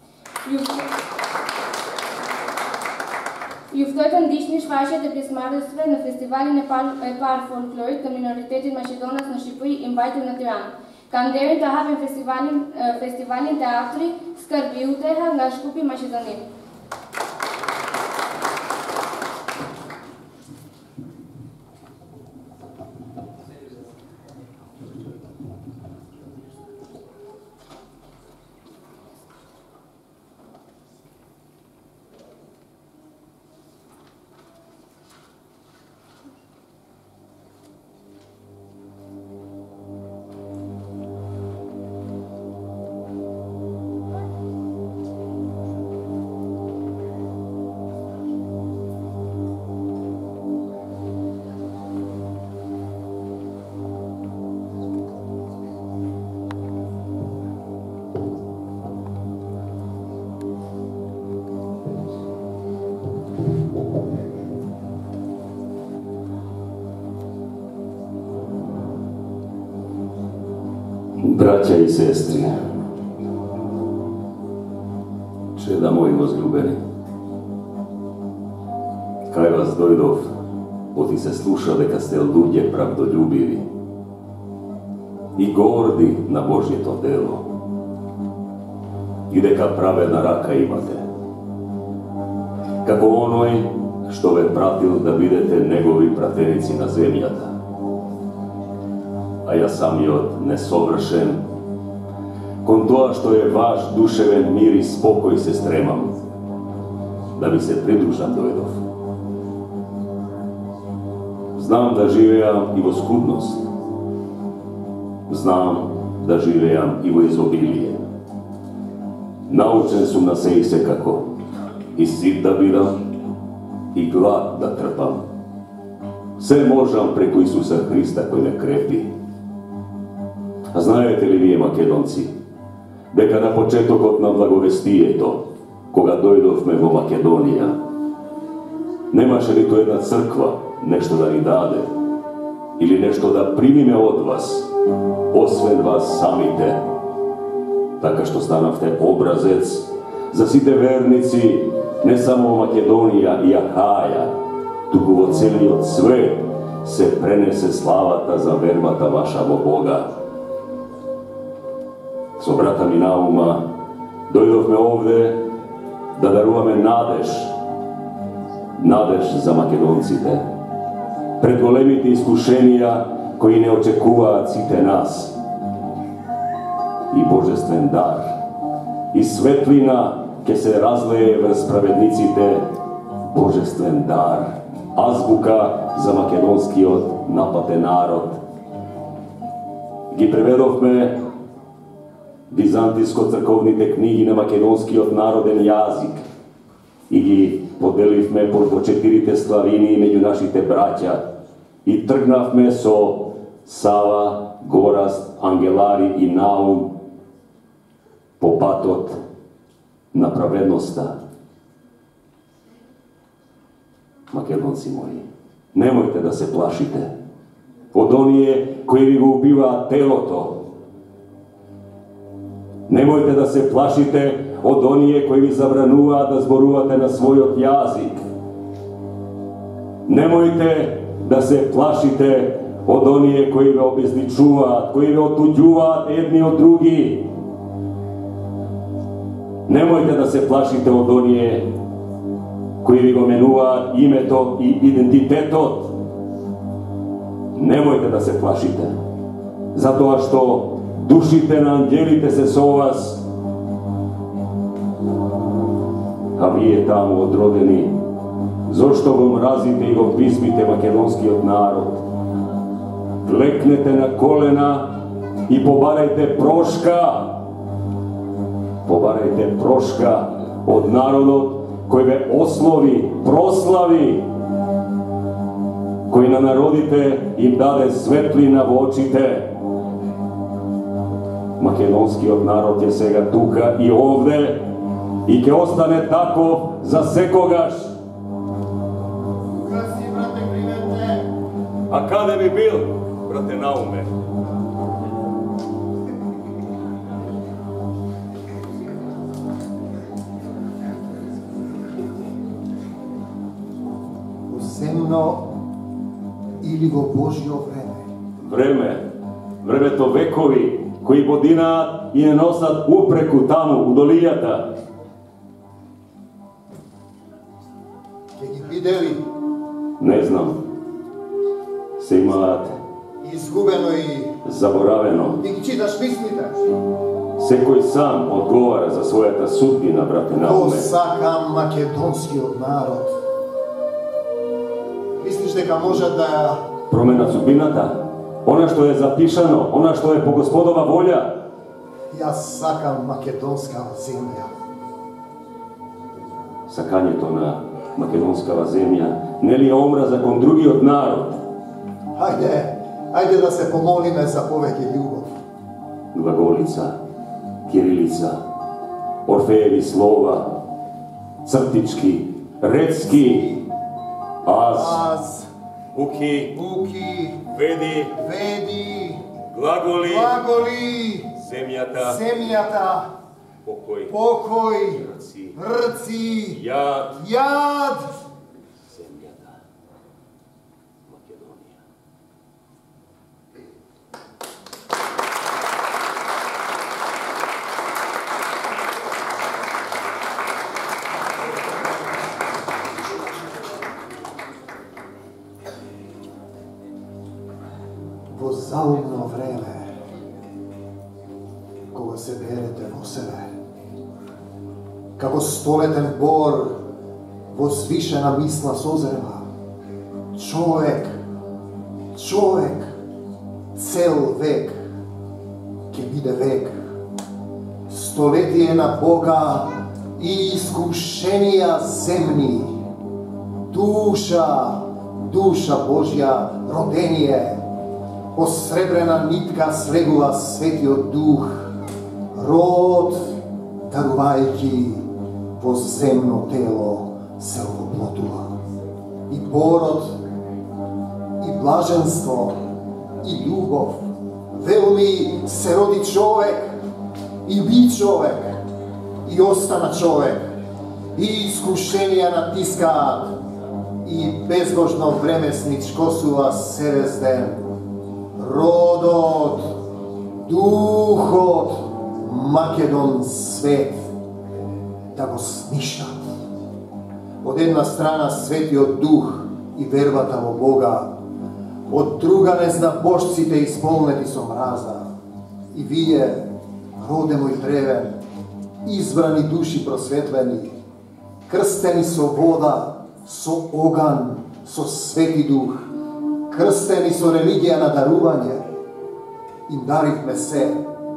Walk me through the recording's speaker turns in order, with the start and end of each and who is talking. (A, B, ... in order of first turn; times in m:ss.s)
0:00.4-0:00.9 A
0:03.7-0:16.4 A
1:11.2-1:12.6 B
1:15.5-1:16.8 B
1:19.3-1:20.3 B
1:20.9-1:23.6 B
1:25.4-1:27.4 B
1:29.3-1:31.1 B
1:32.8-1:37.6 B
1:39.4-1:41.4 B
1:42.6-1:46.2 B
1:47.4-1:48.8 B
1:51.5-1:53.6 B
1:55.3-1:58.0 B
1:59.5-2:01.2 B
2:01.9-2:03.0 B
2:03.9-2:05.2 B
2:06.4-2:09.1 B
2:10.7-2:12.3 B
2:13.1-2:17.7 B
2:19.1-2:21.9 B
2:22.8-2:24.7 B
2:25.3-2:26.8 B
2:28.0-2:34.3 B
2:34.9-2:40.1 B
2:42.4-2:43.6 B
2:44.3-2:45.4 B
2:46.1-2:47.5 B
2:48.8-2:50.4 B
2:51.4-2:55.4 B
2:57.1-2:58.3 B
2:59.1-3:02.6 B
3:03.2-3:08.4 B
3:10.1-3:11.2 B
3:12.5-3:16.2 B
3:17.1-3:21.2 B
3:21.8-3:26.9 B
3:28.4-3:29.2 B
3:30.1-3:31.1 B
3:34.3-3:37.1 B
3:37.9-3:40.6 B
3:42.9-3:48.2 B
3:50.1-3:57.3 B
3:59.7-4:01.7 B
4:02.8-4:06.0 B
4:07.5-4:08.9 B
4:09.7-4:13.2 B
4:16.4-4:17.9 B
4:18.6-4:22.0 B
4:23.2-4:24.9 B
4:25.5-4:27.4 B
4:28.8-4:34.3 B
4:36.1-4:39.5 B
4:41.6-4:44.7 B
4:45.2-4:47.9 B
4:49.5-4:51.3 C
4:51.9-4:54.1 B
5:04.5-5:05.5 C
5:06.6-5:08.1 C
5:08.4-5:09.0 B
5:09.6-5:14.7 B
5:18.4-5:19.2 C
5:20.0-5:20.6 B
5:22.0-5:22.8 B
5:23.2-5:24.3 C
5:24.4-5:25.4 B
5:25.4-5:26.7 C
5:27.4-5:30.9 B
5:30.4-5:33.2 C
5:35.2-5:36.6 C
5:36.9-5:41.3 B
5:42.1-5:44.5 C
5:46.7-5:51.4 B
5:52.2-5:55.3 C
5:56.1-5:56.9 B
5:57.7-5:58.4 B
5:59.2-6:00.5 B
6:01.4-6:03.6 B
6:04.4-6:05.0 B
6:04.7-6:05.5 C
6:05.9-6:06.5 B
6:06.5-6:07.4 C
6:07.4-6:08.1 B
6:08.1-6:09.2 C
6:09.5-6:10.4 B
6:10.0-6:11.3 C
6:11.3-6:12.6 B
6:12.0-6:13.1 C
6:13.6-6:14.2 B
6:14.1-6:15.0 C
6:14.8-6:15.6 B
6:15.5-6:16.6 C
6:16.5-6:17.2 B
6:17.1-6:18.1 C
6:18.8-6:19.6 B
6:21.1-6:21.8 B
6:38.3-6:39.9 C
6:41.9-6:43.5 C
6:45.2-6:46.8 C
6:47.5-6:49.5 C
6:50.3-6:51.2 C
6:52.1-6:52.9 C
6:53.7-6:54.8 C
6:55.9-6:56.9 C
6:57.9-7:02.8 C
7:03.7-7:07.6 C
7:08.3-7:11.7 C
7:12.3-7:13.4 C
7:13.9-7:18.6 C
7:19.3-7:20.2 C
7:21.4-7:22.6 C
7:23.2-7:26.7 C
7:27.4-7:28.6 C
7:29.2-7:30.5 C
7:31.1-7:33.4 C
7:34.0-7:37.6 C
7:38.4-7:39.8 C
7:40.4-7:44.1 C
7:45.1-7:46.2 C
7:47.4-7:51.1 C
7:51.9-7:55.1 C
7:55.7-7:56.5 C
7:57.0-7:58.1 C
7:58.8-8:00.7 C
8:01.5-8:05.9 C
8:06.5-8:08.6 C
8:09.7-8:10.8 C